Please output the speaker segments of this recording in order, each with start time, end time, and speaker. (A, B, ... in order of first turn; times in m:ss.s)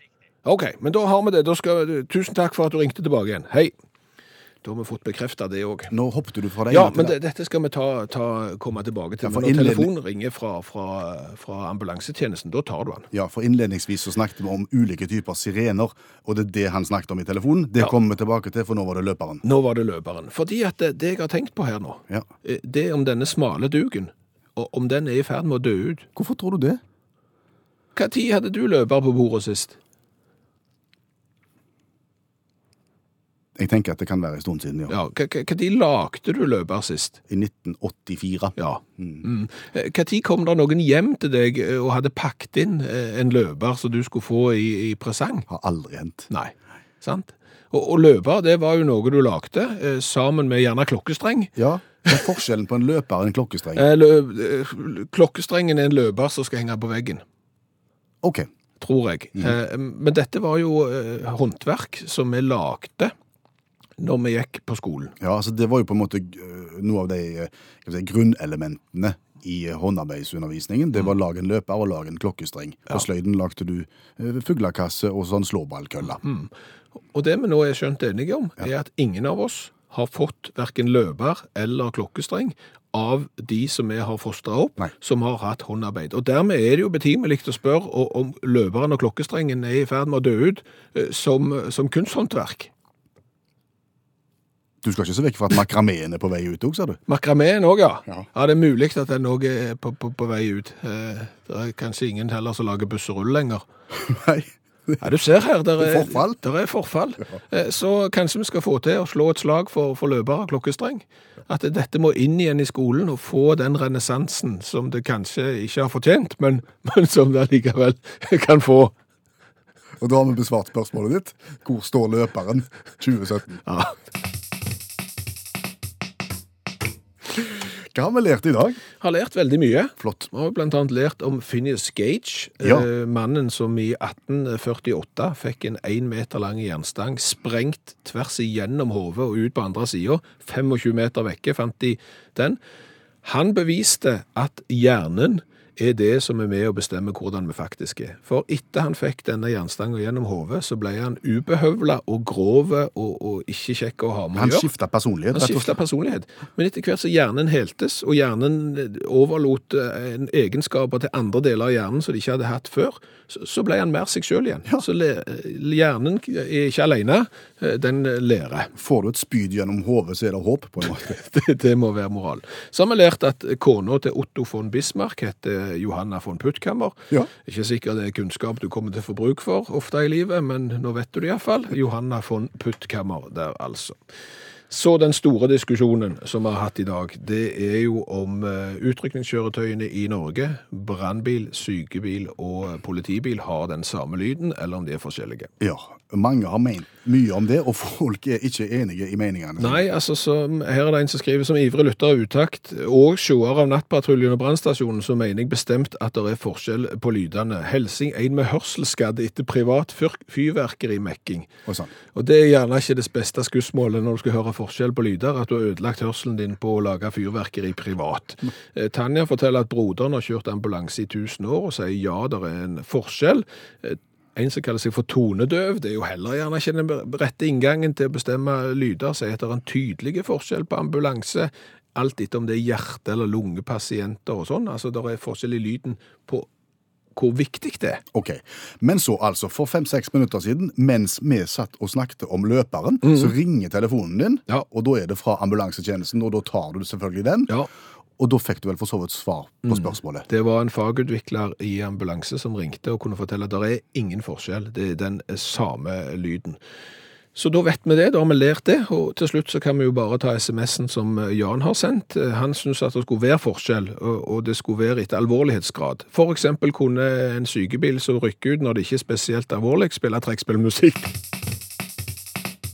0:00.4-0:03.7 A
0:04.6-0:05.9 A
0:05.9-0:07.2 B
0:06.7-0:13.1 A
0:09.2-0:09.9 B
0:13.1-0:19.4 B
0:19.4-0:26.1 A
0:26.2-0:26.8 B
0:28.0-0:29.8 A
0:33.6-0:35.0 B
0:34.9-0:37.2 A
0:37.3-0:39.3 B
0:38.6-0:45.5 A
0:45.5-0:46.3 B
0:46.3-0:51.6 A
0:51.6-0:53.9 B
0:53.8-0:57.2 A
0:58.2-0:58.5 B
0:58.8-1:03.1 A
1:04.0-1:05.1 A
1:05.2-1:16.2 B
1:16.2-1:16.5 A
1:17.1-1:32.7 A
1:34.8-1:37.0 B
1:37.1-1:43.6 A
1:43.9-1:45.0 B
1:45.0-1:58.9 A
1:45.8-1:46.4 B
2:00.0-2:03.6 B
2:03.7-2:04.0 A
2:07.4-2:08.8 B
2:09.0-2:22.6 A
2:10.0-2:10.3 B
2:12.6-2:12.9 B
2:23.2-2:34.7 A
2:34.3-2:35.7 B
2:35.3-2:48.7 A
2:48.8-2:51.2 B
2:50.8-3:04.0 A
3:04.7-3:15.5 A
3:15.6-3:19.9 B
3:19.6-3:31.5 A
3:31.7-3:31.9 B
3:32.1-3:56.5 A
3:57.2-3:58.0 A
3:58.1-4:07.6 B
4:03.0-4:03.3 A
4:08.2-4:10.3 B
4:09.7-4:16.6 A
4:17.4-4:31.2 A